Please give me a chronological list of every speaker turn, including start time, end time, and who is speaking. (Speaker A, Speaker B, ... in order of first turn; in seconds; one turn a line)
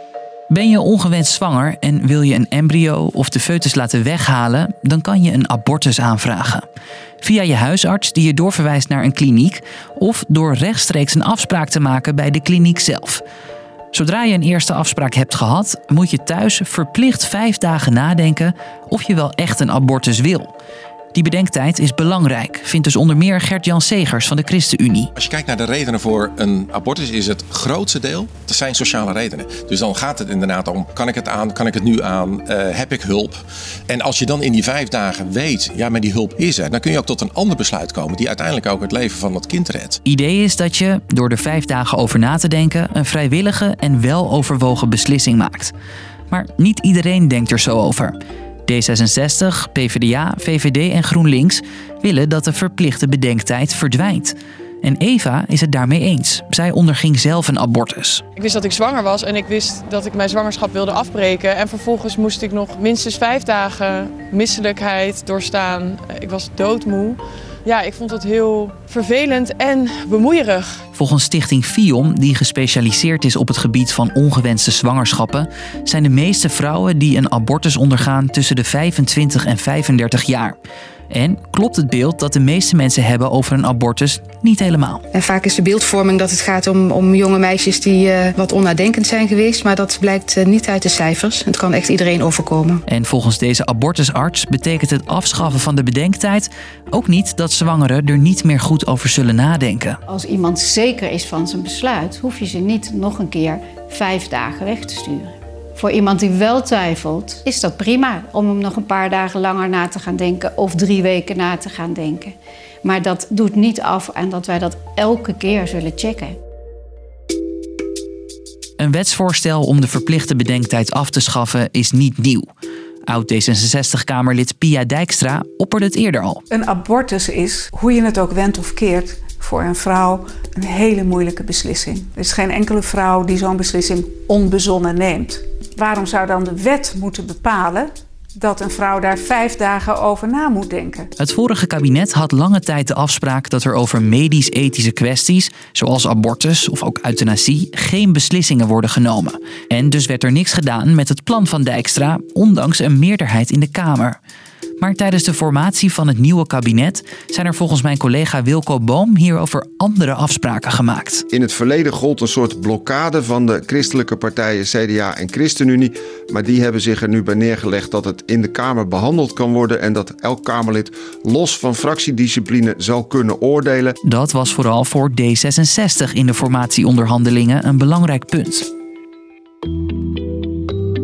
Speaker A: 0.5-6.7
Speaker A: 7.2-13.2
Speaker A: 13.9-20.5
Speaker A: 21.1-25.1
Speaker B: 25.2-33.4
Speaker B: 33.9-40.0
Speaker A: 40.0-45.7
Speaker A: 46.3-48.1
Speaker A: 48.7-58.2
Speaker C: 58.4-70.8
Speaker A: 70.9-80.5
Speaker A: 81.1-85.0
Speaker D: 85.1-92.8
Speaker A: 92.9-100.0
Speaker E: 100.1-116.4
Speaker A: 118.8-122.5
Speaker A: 123.1-126.4
Speaker F: 126.5-141.1
Speaker A: 141.2-154.2
Speaker A: 154.8-161.2
Speaker G: 161.3-173.9
Speaker A: 174.1-178.7